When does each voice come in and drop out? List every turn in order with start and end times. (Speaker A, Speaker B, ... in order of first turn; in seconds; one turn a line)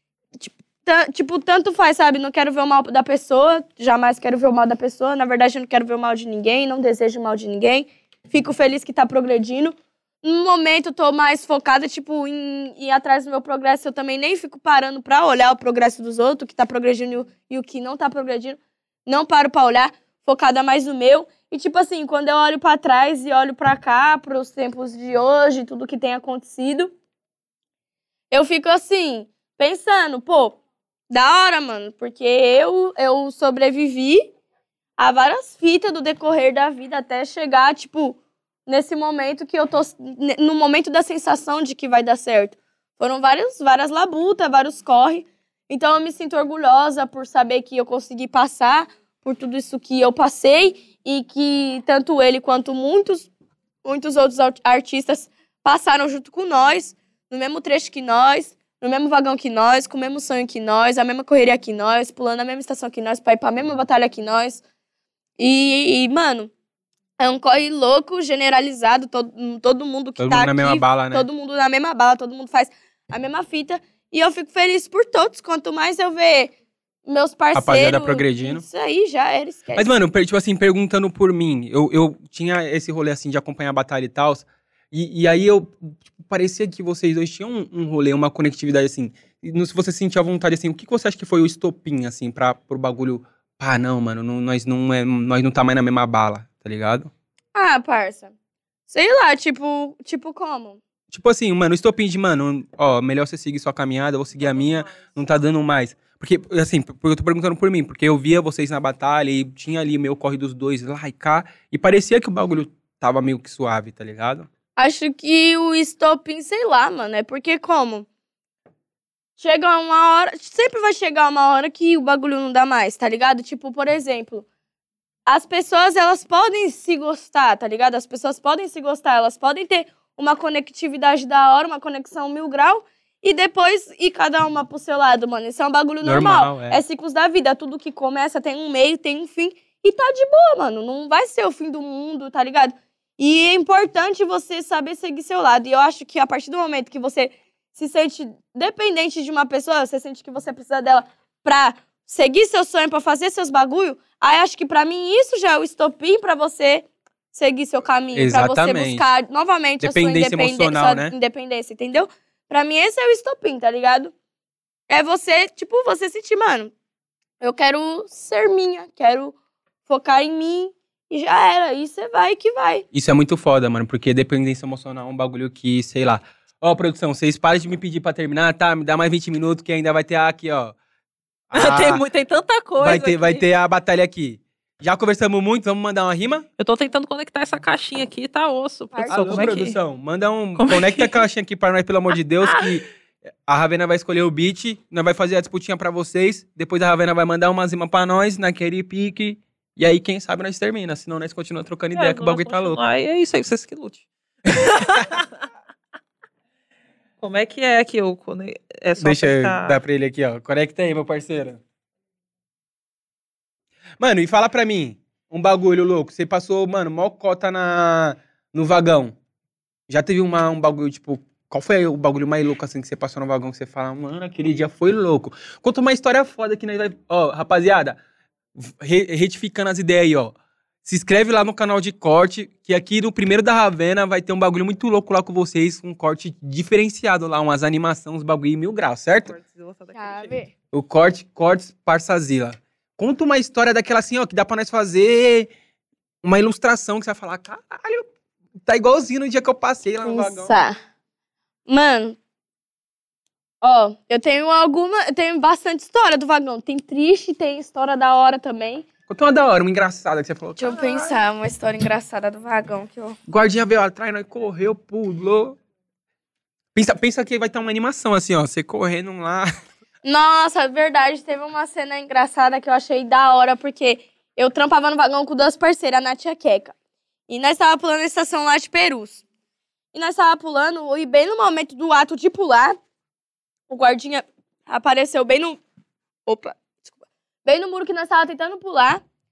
Speaker A: 0.4-26.9
Speaker A: 28.3-30.6
Speaker A: 31.1-34.3
Speaker A: 35.0-53.3
Speaker A: 53.8-64.6
Speaker A: 65.4-66.5
Speaker A: 67.2-76.5
Speaker B: 70.2-71.3
Speaker A: 77.0-79.9
Speaker B: 77.5-78.6
Speaker B: 79.7-97.1
Speaker A: 97.5-98.3
Speaker A: 98.9-100.8
Speaker B: 101.1-114.5
Speaker C: 104.5-105.0
Speaker A: 114.8-118.1
Speaker A: 119.4-124.5
Speaker A: 125.3-164.1
Speaker B: 136.0-136.8
Speaker B: 158.1-159.1
Speaker B: 159.8-161.1
Speaker A: 164.9-166.7
Speaker A: 167.4-172.8
Speaker B: 172.9-180.8
Speaker B: 181.5-182.0
Speaker C: 181.5-183.4
Speaker B: 182.8-186.4
Speaker C: 186.6-189.8
Speaker A: 188.9-189.6
Speaker B: 189.1-192.8
Speaker C: 190.6-191.2
Speaker C: 192.4-192.7
Speaker B: 193.5-202.8
Speaker C: 201.9-205.3
Speaker C: 207.2-209.8
Speaker B: 209.0-211.6
Speaker B: 214.0-219.1
Speaker B: 219.9-228.0
Speaker B: 228.6-230.3
Speaker B: 230.8-239.3
Speaker C: 239.2-240.4
Speaker A: 239.9-240.5
Speaker B: 240.7-245.5
Speaker B: 246.2-248.1
Speaker B: 248.6-250.6
Speaker A: 250.0-250.8
Speaker A: 251.7-252.2
Speaker A: 253.6-258.9
Speaker B: 259.1-261.2
Speaker A: 260.6-263.2
Speaker B: 263.3-265.6
Speaker B: 266.7-269.5
Speaker A: 270.0-276.7
Speaker A: 277.3-279.2
Speaker A: 279.9-282.8
Speaker A: 283.7-285.6
Speaker A: 286.2-286.9
Speaker A: 287.4-289.0